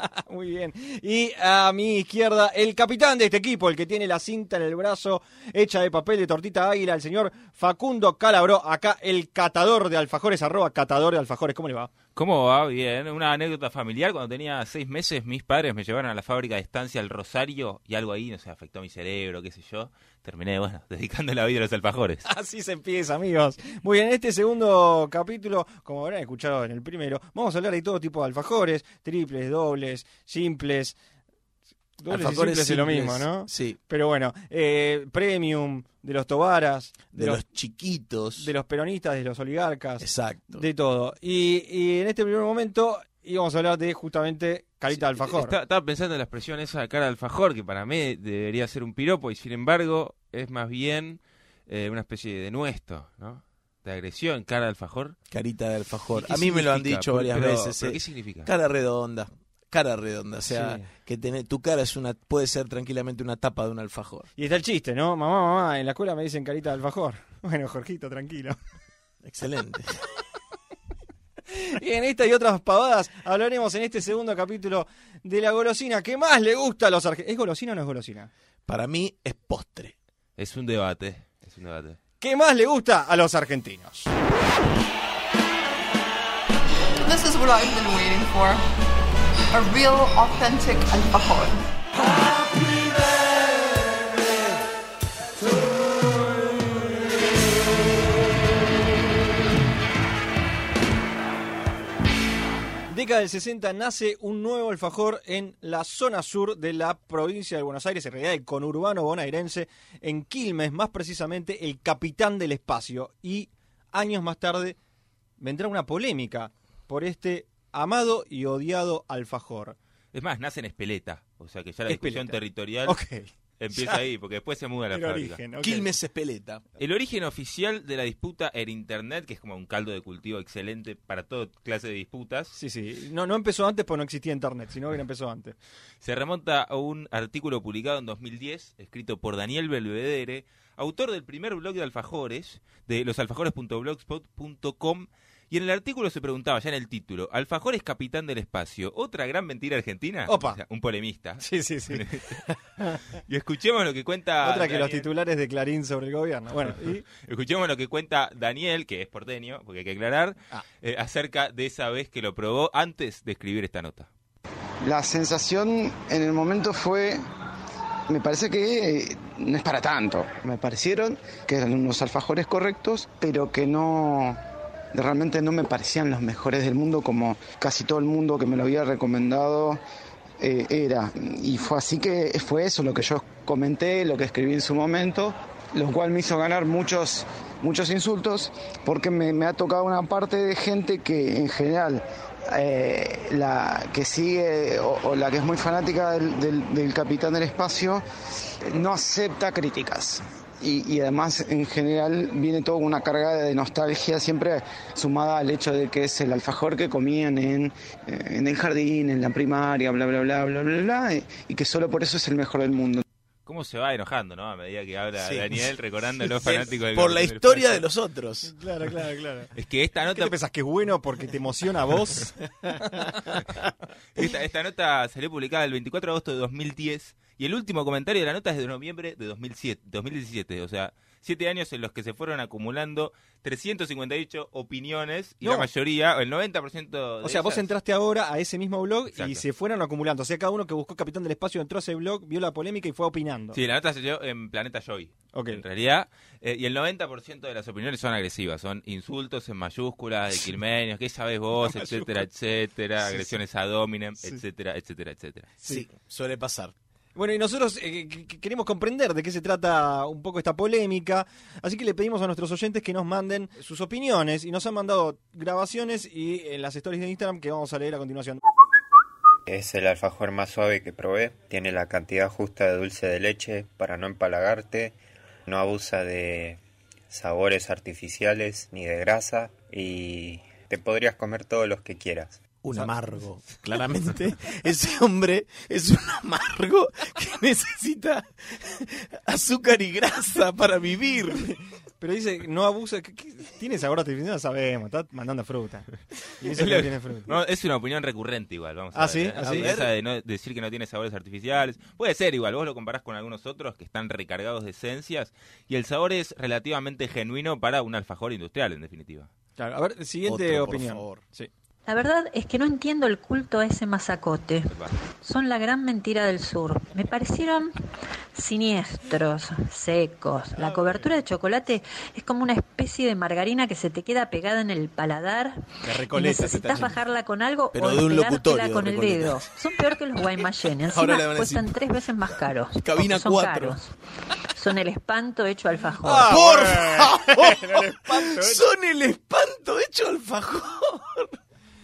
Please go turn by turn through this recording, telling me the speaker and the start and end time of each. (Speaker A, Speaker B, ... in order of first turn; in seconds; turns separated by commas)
Speaker A: 0.2-11.9, Speaker B: 12.2-22.2, Speaker A: 22.2-31.0, Speaker A: 32.0-37.4, Speaker C: 32.1-33.8, Speaker C: 37.1-38.5, Speaker A: 38.4-45.5, Speaker C: 40.0-40.6, Speaker B: 45.2-55.1, Speaker C: 55.3-64.3, Speaker B: 56.1-58.5, Speaker B: 60.5-60.8, Speaker A: 64.4-68.6, Speaker C: 69.2-70.0, Speaker A: 71.5-78.3, Speaker C: 78.7-79.9, Speaker B: 80.4-82.0, Speaker A: 82.2-84.1, Speaker D: 87.0-88.6, Speaker D: 89.5-91.7, Speaker A: 102.9-114.8, Speaker A: 115.4-119.8, Speaker B: 120.1-123.0, Speaker A: 121.9-124.0, Speaker B: 123.6-125.4, Speaker A: 124.9-125.9, Speaker C: 125.6-126.6, Speaker B: 126.8-132.5, Speaker A: 132.5-135.5, Speaker B: 136.0-152.4, Speaker A: 150.3-150.6, Speaker A: 151.4-153.0, Speaker B: 153.3-155.1, Speaker A: 154.4-157.0, Speaker B: 157.2-164.1, Speaker E: 164.8-167.2, Speaker E: 168.1-174.4, Speaker E: 174.9-179.8, Speaker E: 180.4-198.0, Speaker E: 198.7-213.0, Speaker B: 213.4-217.8, Speaker C: 215.2-215.6, Speaker C: 216.3-218.5, Speaker A: 218.4-219.5, Speaker B: 219.6-220.3, Speaker A: 220.1-223.1, Speaker B: 224.2-237.7, Speaker A: 235.4-235.7, Speaker A: 237.2-243.6, Speaker B: 239.1-239.4, Speaker B: 243.5-255.5, Speaker A: 245.3-245.6, Speaker A: 251.6-252.2, Speaker A: 253.0-253.4, Speaker C: 255.6-256.7, Speaker A: 257.1-268.4, Speaker F: 269.5-282.4, Speaker C: 282.6-291.5, Speaker A: 291.5-295.9, Speaker A: 296.4-297.3, Speaker B: 296.6-309.3, Speaker A: 298.9-299.8, Speaker C: 299.3-299.9, Speaker A: 309.6-311.5, Speaker C: 310.2-311.2, Speaker G: 311.9-317.7, Speaker B: 314.7-314.9, Speaker G: 318.3-333.9, Speaker A: 320.6-321.0, Speaker A: 325.8-326.8, Speaker C: 326.4-326.9, Speaker C: 327.7-329.5, Speaker C: 330.9-331.8, Speaker C: 332.8-333.8, Speaker G: 334.5-336.3, Speaker A: 336.0-338.6, Speaker C: 336.2-341.3